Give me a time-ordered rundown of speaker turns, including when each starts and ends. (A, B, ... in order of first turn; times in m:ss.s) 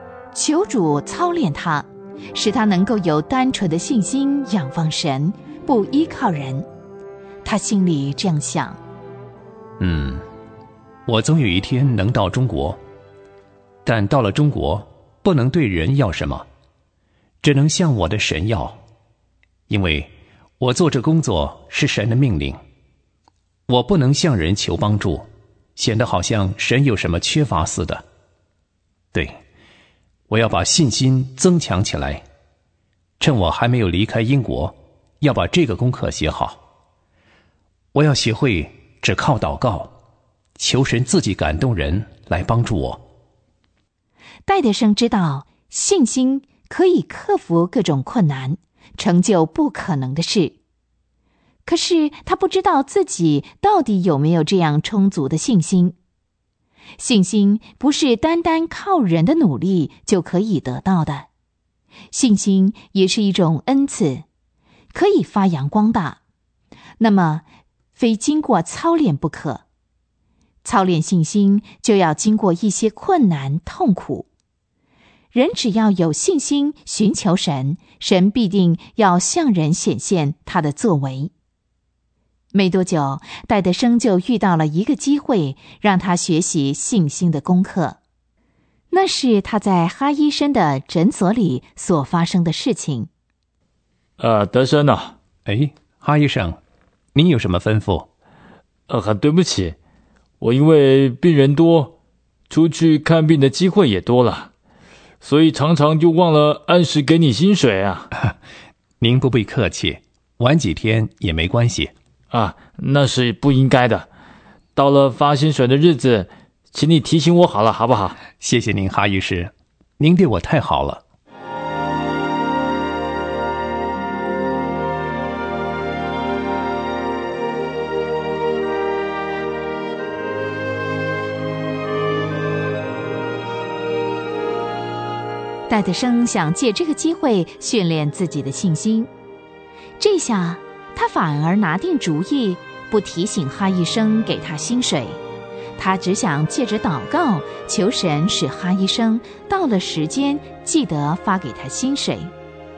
0:00.3-0:06.7 A
0:07.4-0:08.8 A
0:09.8-0:10.2 B
0:11.1-0:12.8 B
0:13.8-0:16.5 B
0:17.4-0:18.8 B
0:19.7-0:22.6 B
0:23.7-0:28.0 B
0:30.3-0:32.2 B
0:33.2-0:36.6 B
0:37.9-0:39.9 B
0:40.6-0:43.0 B
0:44.5-0:50.6 A
0:51.6-0:56.0 A
0:57.0-1:01.3 A
1:02.1-1:04.2 A
1:04.9-1:06.2 A
1:07.0-1:07.4 A
1:08.0-1:09.6 A
1:10.6-1:14.3 A
1:15.3-1:21.3 A
1:22.5-1:28.0 A
1:28.9-1:33.1 A
1:34.2-1:35.2 C
1:35.5-1:36.6 B
1:37.2-1:38.1 B
1:38.9-1:39.8 C
1:40.4-1:41.9 C
1:42.5-1:44.5 C
1:45.2-1:48.1 C
1:49.0-1:51.9 B
1:52.3-1:54.1 C
1:54.8-1:58.2 C
1:58.4-2:01.0 B
2:15.7-2:19.1 A
2:20.0-2:25.2 A
2:25.8-2:32.3 A